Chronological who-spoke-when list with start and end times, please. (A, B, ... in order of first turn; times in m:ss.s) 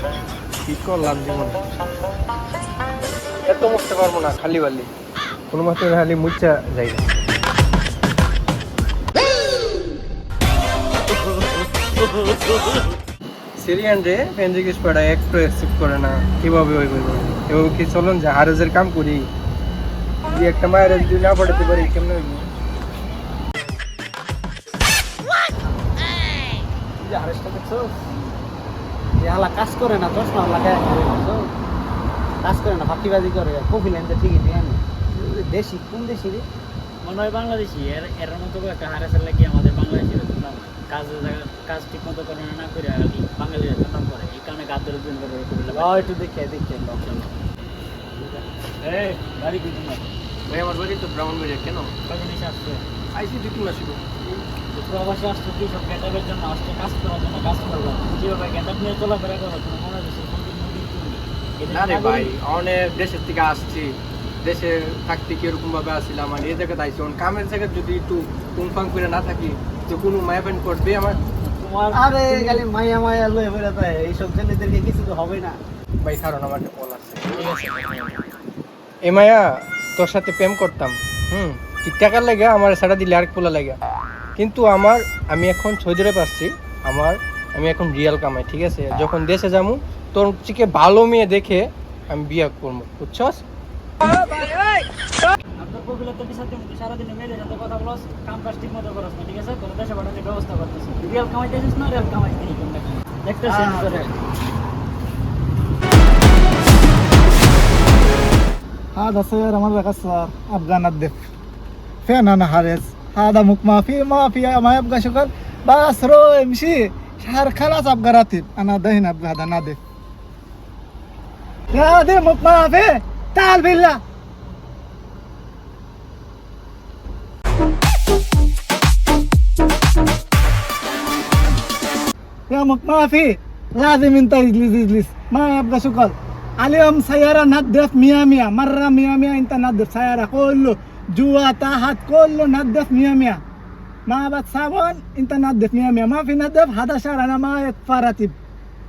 0:00.6-0:01.6 A
0:03.4-0:04.9 A
0:05.5-0:07.1 A
0:13.6-0:19.3 A
0:20.2-0:22.5 A
0:27.0-0:27.9 B
0:29.2-0:31.5 B
0:32.4-0:36.4 B
0:37.0-0:46.2 C
0:45.7-0:47.3 B
0:48.8-0:50.1 C
0:50.4-0:51.9 A
0:52.0-0:52.8 C
0:53.1-0:54.4 A
0:54.7-1:02.3 C
1:01.7-1:11.2 A
1:11.2-1:12.6 C
1:11.9-1:15.6 B
1:16.0-1:17.4 A
1:17.3-1:18.2 C
1:19.0-1:19.4 A
1:20.0-1:23.8 A
1:24.4-1:33.4 A
1:35.6-1:44.1 C
1:43.4-1:44.0 D
1:48.9-1:51.2 D
1:52.0-1:59.8 D
2:01.7-2:04.0 D
2:12.5-2:23.4 D
2:24.1-2:28.4 D